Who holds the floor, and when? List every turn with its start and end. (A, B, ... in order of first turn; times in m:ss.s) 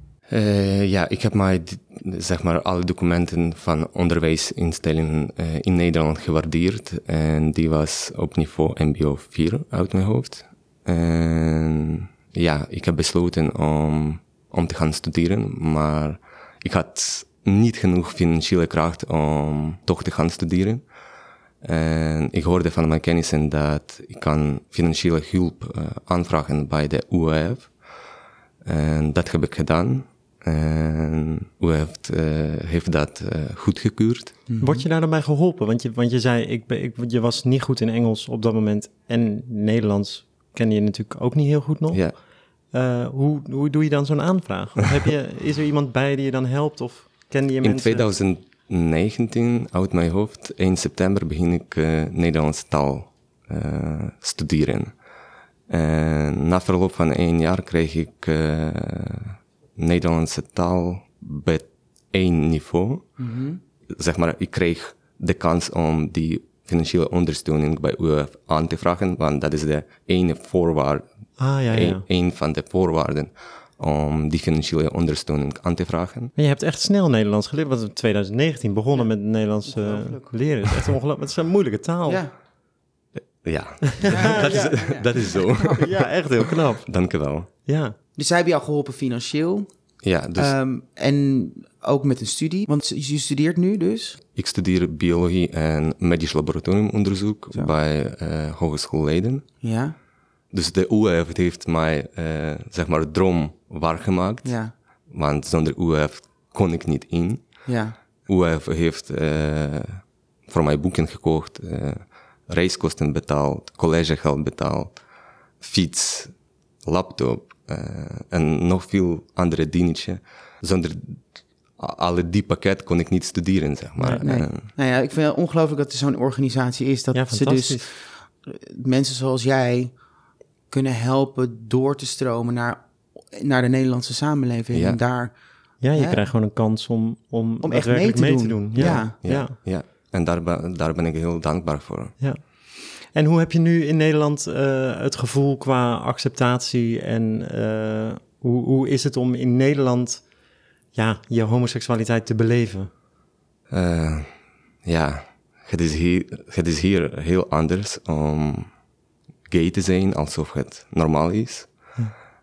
0:00.3-0:20.8 A
0:21.6-0:27.7 A
0:28.6-0:34.4 A
0:34.5-0:34.8 B
0:34.6-0:42.0 C
0:42.7-0:48.1 C
0:47.6-0:54.9 A
0:55.7-1:03.0 A
1:03.2-1:03.6 B
1:03.9-1:11.1 A
1:11.4-1:12.0 C
1:11.7-1:16.3 A
1:16.4-1:22.2 C
1:19.6-1:20.3 B
1:23.4-1:26.1 A
1:23.9-1:24.8 C
1:24.1-1:25.7 B
1:25.7-1:26.9 C
1:26.8-1:27.5 A
1:27.7-1:27.9 C
1:28.2-1:29.7 B
1:30.0-1:30.6 A
1:30.4-1:34.2 B
1:34.3-1:39.4 A
1:39.6-1:40.0 B
1:40.5-1:44.5 A
1:44.4-1:44.7 B
1:45.1-1:47.4 A
1:47.6-1:48.0 B
1:48.3-1:55.0 A
1:55.6-1:56.3 A
1:56.8-2:01.2 A
2:01.8-2:04.7 A
2:04.0-2:04.2 C
2:04.2-2:09.9 B
2:07.1-2:07.8 C
2:10.7-2:15.3 B
2:14.7-2:15.0 A
2:15.8-2:19.6 C
2:15.9-2:16.2 B
2:17.6-2:19.2 B
2:18.8-2:22.1 A
2:23.0-2:30.2 C
2:30.9-2:32.9 C
2:33.7-2:34.3 A
2:34.8-2:38.7 A
2:39.5-2:41.7 A